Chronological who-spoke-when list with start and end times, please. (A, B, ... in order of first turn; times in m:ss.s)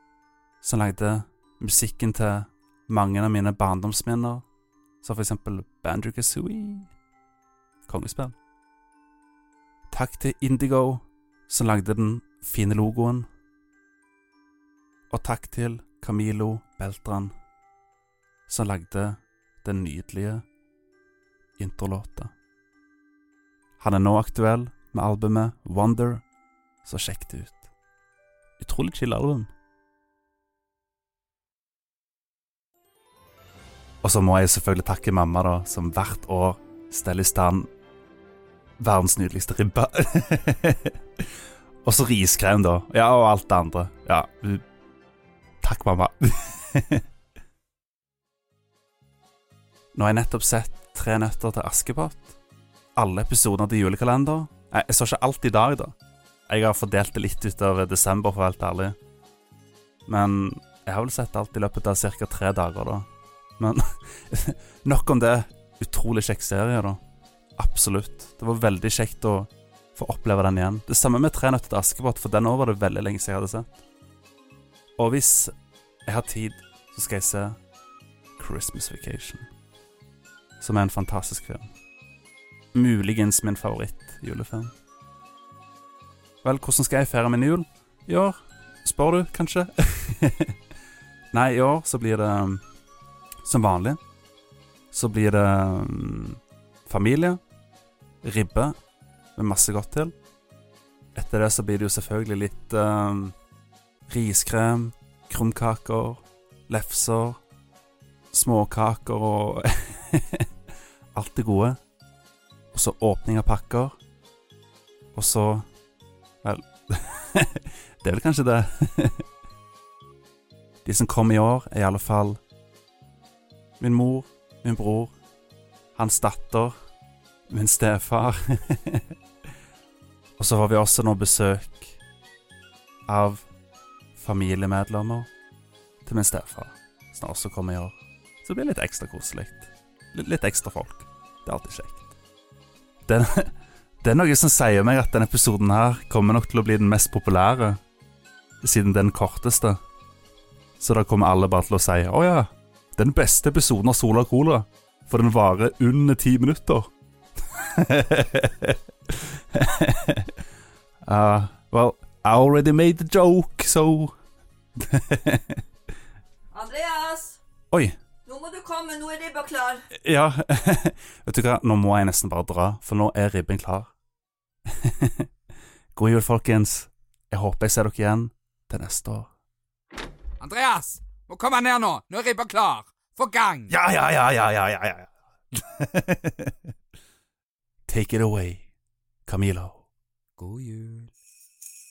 0:00.6-0:04.4 A
0:05.0-0:06.9 A
0:07.9-0:08.4 A
0:09.9-0:13.2 A
0:15.1-0:17.3 A
0:18.5-0:20.4 A
0:21.6-0:22.3 A
0:23.8-0:26.2 A
0:26.8-0:27.7 A
0:28.6-0:29.5 A
0:34.0-0:37.7 A
0:38.8-0:41.2 A
0:41.8-0:44.6 A
0:45.6-0:47.0 A
0:49.9-0:52.4 A
0:53.0-0:55.9 A
0:56.5-0:59.0 A
1:00.1-1:03.1 A
1:03.6-1:07.0 A
1:07.6-1:13.8 A
1:15.0-1:15.5 A
1:16.1-1:17.6 A
1:18.4-1:19.5 A
1:20.6-1:21.7 A
1:22.7-1:24.7 A
1:26.4-1:30.6 A
1:31.3-1:32.6 A
1:33.4-1:34.0 A
1:34.9-1:37.4 A
1:38.2-1:38.7 A
1:39.4-1:40.1 A
1:41.1-1:43.3 A
1:44.1-1:47.4 A
1:48.3-1:50.4 A
1:51.1-1:51.8 A
1:52.7-1:54.0 A
1:55.1-1:55.7 A
1:56.4-1:59.2 A
2:00.8-2:02.4 A
2:03.8-2:05.1 A
2:05.9-2:06.7 A
2:07.5-2:09.1 A
2:10.4-2:12.0 A
2:13.1-2:13.5 A
2:14.2-2:15.3 A
2:16.0-2:22.1 A
2:23.0-2:27.8 A
2:28.6-2:29.8 A
2:30.8-2:36.9 A
2:37.4-2:40.3 A
2:41.0-2:44.1 A
2:44.8-2:45.6 A
2:46.5-2:47.4 B
2:47.7-2:48.0 A
2:48.2-2:49.8 B
2:49.9-2:53.9 A
2:54.7-2:55.3 A
2:55.9-2:59.3 A
3:00.4-3:03.7 C
3:03.7-3:06.5 A
3:07.9-3:08.7 A
3:09.2-3:09.9 A
3:10.4-3:11.1 C